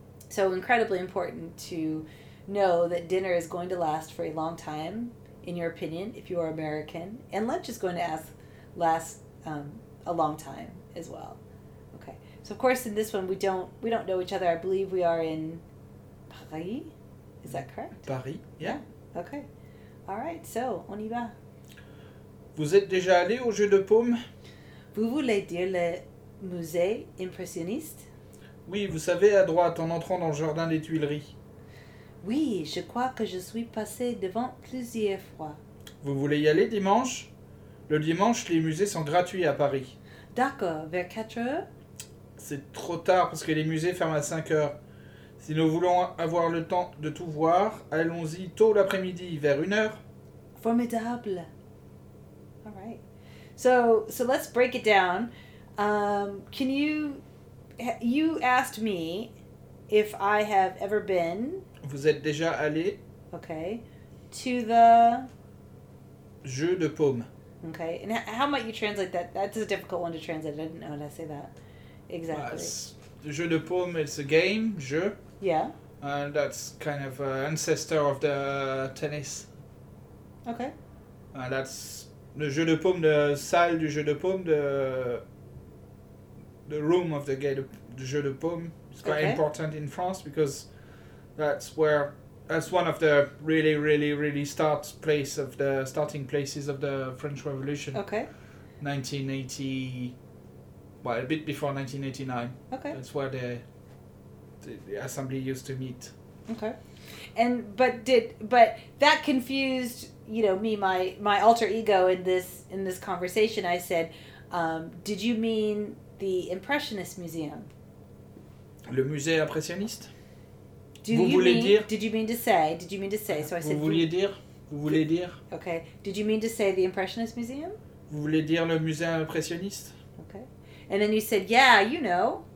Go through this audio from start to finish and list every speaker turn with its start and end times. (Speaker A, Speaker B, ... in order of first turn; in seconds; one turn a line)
Speaker A: 0.3-11.4
Speaker A: 11.9-15.6
Speaker A: 16.3-18.1
Speaker B: 17.5-18.8
Speaker A: 18.6-19.4
Speaker A: 20.1-21.3
Speaker B: 22.5-24.2
Speaker A: 24.9-28.1
Speaker B: 28.6-31.3
Speaker A: 32.2-35.6
Speaker B: 36.0-37.3
Speaker B: 37.9-40.0
Speaker A: 40.3-41.6
Speaker B: 42.4-44.7
Speaker B: 45.4-50.0
Speaker A: 50.5-51.5
Speaker A: 52.6-53.0
Speaker A: 53.5-57.2
Speaker A: 57.8-59.3
Speaker A: 59.9-61.6
Speaker B: 61.8-63.0
Speaker A: 63.3-65.3
Speaker B: 66.4-67.3
Speaker A: 67.6-71.5
Speaker A: 72.1-72.7
Speaker B: 72.3-75.2
Speaker A: 75.4-75.7
Speaker B: 76.0-79.5
Speaker A: 80.5-80.7
Speaker B: 81.3-85.2
Speaker B: 86.7-90.7
Speaker A: 89.0-89.4
Speaker B: 91.3-98.0
Speaker A: 97.9-98.3
Speaker B: 98.8-100.1
Speaker B: 101.0-103.6
Speaker A: 102.7-103.0
Speaker B: 104.6-106.1
Speaker A: 106.5-106.8
Speaker A: 107.3-117.7
Speaker B: 118.9-120.1
Speaker A: 121.0-124.1
Speaker B: 121.1-121.9
Speaker B: 123.3-125.4
Speaker A: 125.5-127.8
Speaker B: 128.1-129.9
Speaker A: 130.2-132.4